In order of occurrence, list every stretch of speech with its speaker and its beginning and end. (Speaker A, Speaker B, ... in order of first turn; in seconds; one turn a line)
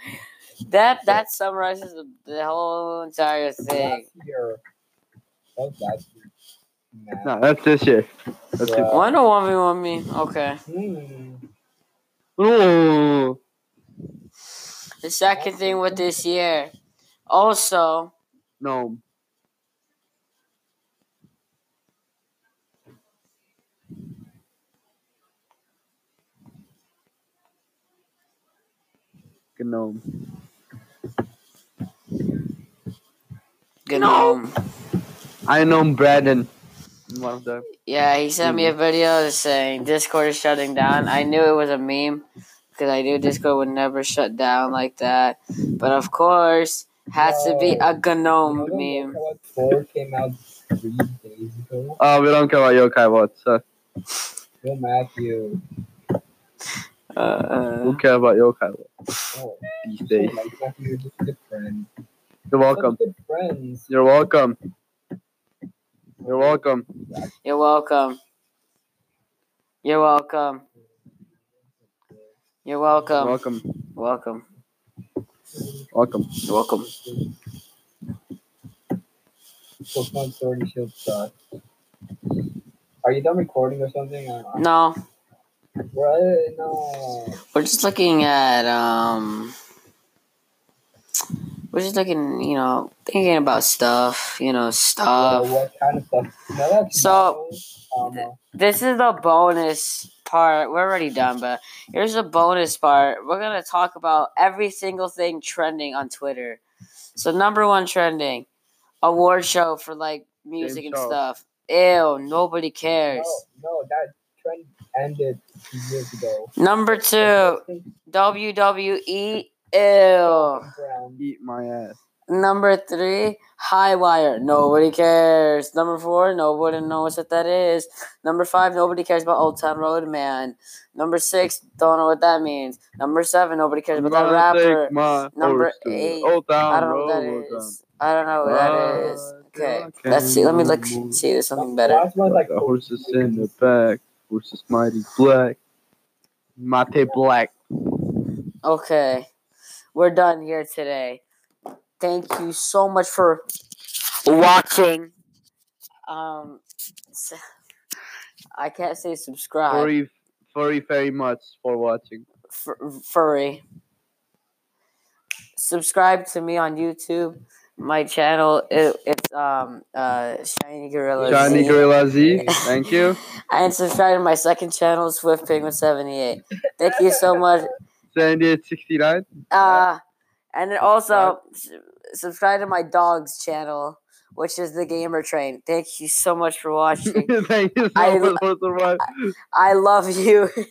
Speaker A: 0.7-4.0
Speaker B: 3.7-4.6
Speaker B: 5.5-6.3
Speaker B: 6.9-7.3
Speaker C: 7.2-8.9
Speaker B: 8.6-9.1
Speaker A: 8.9-10.6
Speaker B: 10.7-11.4
Speaker C: 12.4-13.4
Speaker A: 15.0-16.7
Speaker B: 15.3-16.2
Speaker A: 17.3-18.1
Speaker C: 18.6-19.0
Speaker C: 29.6-30.0
Speaker A: 33.9-34.5
Speaker C: 33.9-34.3
Speaker C: 35.5-36.5
Speaker C: 37.1-37.6
Speaker A: 37.8-49.2
Speaker C: 38.4-38.7
Speaker B: 47.1-52.0
Speaker C: 52.0-53.6
Speaker B: 54.6-55.6
Speaker A: 57.1-58.0
Speaker C: 57.8-58.9
Speaker B: 59.3-61.9
Speaker C: 59.8-60.3
Speaker C: 62.5-63.0
Speaker B: 62.7-63.9
Speaker C: 63.9-64.6
Speaker B: 66.2-67.3
Speaker C: 66.3-66.8
Speaker A: 67.4-68.2
Speaker A: 69.8-70.6
Speaker B: 71.8-72.3
Speaker A: 72.6-73.4
Speaker B: 72.9-73.2
Speaker C: 73.2-73.6
Speaker A: 73.9-74.4
Speaker B: 75.5-75.9
Speaker C: 75.9-76.2
Speaker A: 76.5-76.9
Speaker B: 76.8-77.2
Speaker B: 79.9-81.3
Speaker B: 83.0-84.7
Speaker A: 84.5-85.0
Speaker B: 85.9-87.4
Speaker A: 87.5-89.5
Speaker A: 91.7-95.5
Speaker B: 95.1-98.3
Speaker A: 96.9-97.4
Speaker A: 98.1-106.6
Speaker A: 107.2-108.5
Speaker A: 109.0-113.4
Speaker C: 110.6-111.2
Speaker B: 113.1-117.8
Speaker A: 116.6-120.6
Speaker B: 120.2-121.2
Speaker C: 121.2-122.0
Speaker A: 122.3-142.1
Speaker C: 133.9-137.7
Speaker C: 138.4-141.2
Speaker B: 141.6-143.6
Speaker C: 142.2-145.6
Speaker C: 146.6-147.5
Speaker A: 148.6-149.3
Speaker A: 149.9-151.2
Speaker A: 152.0-153.4
Speaker A: 154.2-155.1
Speaker A: 156.1-156.6
Speaker A: 158.6-159.9
Speaker C: 159.7-162.2
Speaker A: 162.5-163.6
Speaker A: 165.6-171.8
Speaker B: 171.2-172.6
Speaker C: 171.2-173.2
Speaker A: 173.5-177.7
Speaker C: 178.1-179.9
Speaker A: 179.5-180.0
Speaker A: 180.5-187.3
Speaker C: 181.1-181.3
Speaker C: 187.1-189.1
Speaker A: 187.9-188.4
Speaker A: 189.5-190.5